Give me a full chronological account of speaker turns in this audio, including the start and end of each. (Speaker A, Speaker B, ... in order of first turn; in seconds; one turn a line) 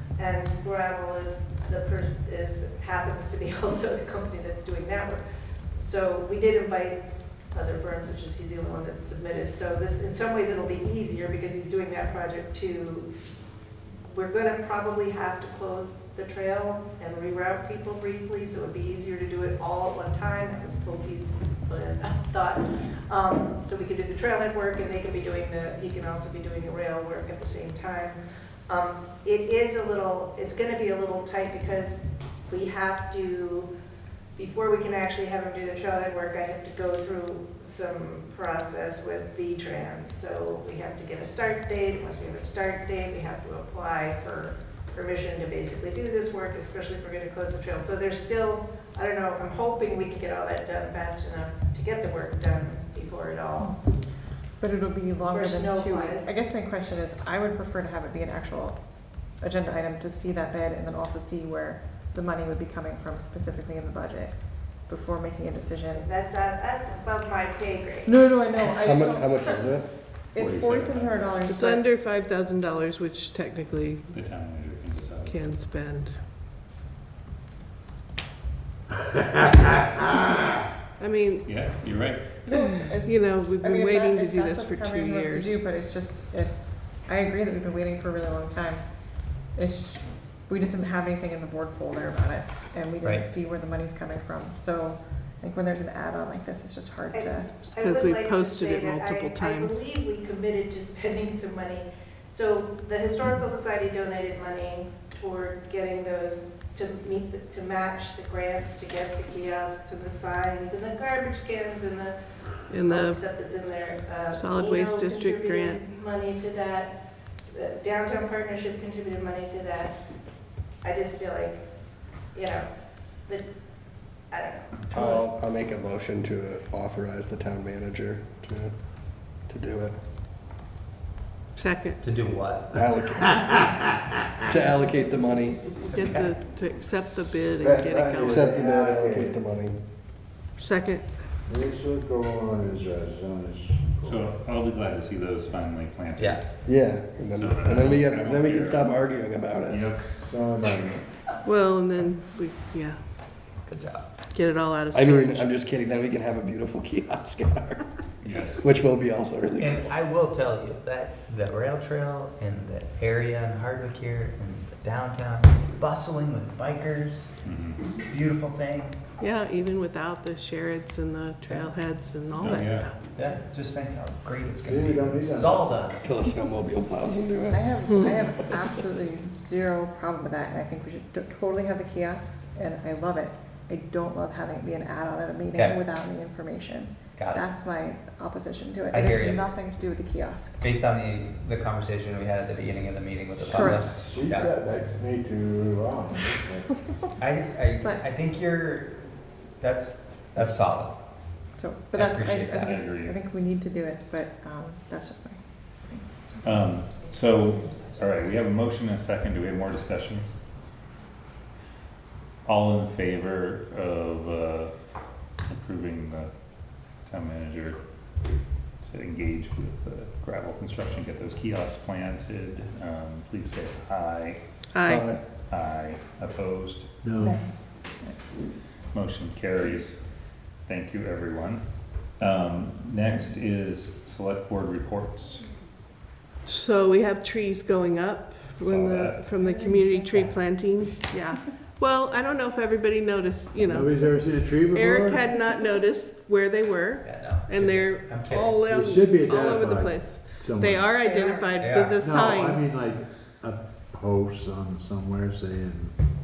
Speaker A: 0.2-5.2
Speaker A: 5.8-13.1
Speaker A: 14.1-33.7
Speaker A: 34.4-53.8
Speaker B: 54.6-66.1
Speaker A: 55.3-56.3
Speaker A: 65.9-68.1
Speaker B: 68.1-69.7
Speaker C: 68.8-69.9
Speaker B: 70.3-71.8
Speaker D: 70.4-71.3
Speaker E: 71.5-74.2
Speaker D: 74.1-75.4
Speaker E: 75.2-76.2
Speaker F: 79.2-79.9
Speaker E: 81.0-81.5
Speaker D: 81.5-82.4
Speaker B: 82.5-97.5
Speaker E: 82.5-85.6
Speaker G: 93.0-93.3
Speaker A: 97.1-112.2
Speaker E: 97.7-99.8
Speaker E: 112.7-113.2
Speaker A: 112.8-117.0
Speaker E: 114.3-115.9
Speaker A: 117.5-120.0
Speaker A: 120.8-121.6
Speaker A: 122.3-122.7
Speaker A: 124.3-125.2
Speaker C: 124.9-130.0
Speaker E: 131.6-132.0
Speaker G: 132.0-132.7
Speaker C: 132.7-133.8
Speaker C: 134.4-135.9
Speaker E: 135.8-138.5
Speaker F: 137.6-139.4
Speaker C: 138.2-139.8
Speaker E: 140.6-141.1
Speaker F: 141.5-144.3
Speaker D: 144.0-149.0
Speaker G: 146.2-146.4
Speaker C: 146.6-149.9
Speaker D: 149.7-150.1
Speaker F: 150.2-151.0
Speaker E: 151.4-153.1
Speaker G: 153.6-154.1
Speaker E: 154.3-155.5
Speaker C: 154.9-159.9
Speaker D: 158.2-158.7
Speaker G: 159.6-167.3
Speaker D: 167.4-167.9
Speaker G: 168.0-169.0
Speaker E: 169.2-173.1
Speaker D: 172.3-172.9
Speaker G: 173.1-176.0
Speaker F: 174.6-175.9
Speaker C: 176.0-178.9
Speaker B: 177.5-190.6
Speaker E: 177.9-178.2
Speaker G: 185.5-185.8
Speaker G: 187.2-187.5
Speaker G: 188.9-189.4
Speaker G: 190.6-194.5
Speaker F: 193.4-196.9
Speaker B: 193.5-193.9
Speaker G: 197.2-199.1
Speaker G: 199.6-201.0
Speaker B: 201.5-206.7
Speaker G: 201.9-202.7
Speaker D: 202.6-203.2
Speaker D: 206.4-210.3
Speaker A: 207.1-208.0
Speaker D: 212.4-214.7
Speaker D: 215.4-216.3
Speaker D: 217.1-217.8
Speaker D: 218.8-224.4
Speaker E: 224.7-225.1
Speaker C: 224.9-225.2
Speaker D: 225.5-226.9
Speaker F: 227.0-227.4
Speaker B: 227.2-227.5
Speaker D: 228.9-230.0
Speaker D: 230.6-231.6
Speaker D: 232.2-235.5
Speaker E: 236.4-244.2
Speaker D: 238.6-239.4
Speaker B: 239.4-240.3
Speaker F: 243.6-245.4
Speaker E: 244.7-252.7
Speaker G: 247.0-248.7
Speaker F: 248.7-250.9
Speaker B: 251.0-251.7
Speaker G: 251.6-252.0
Speaker F: 252.0-256.0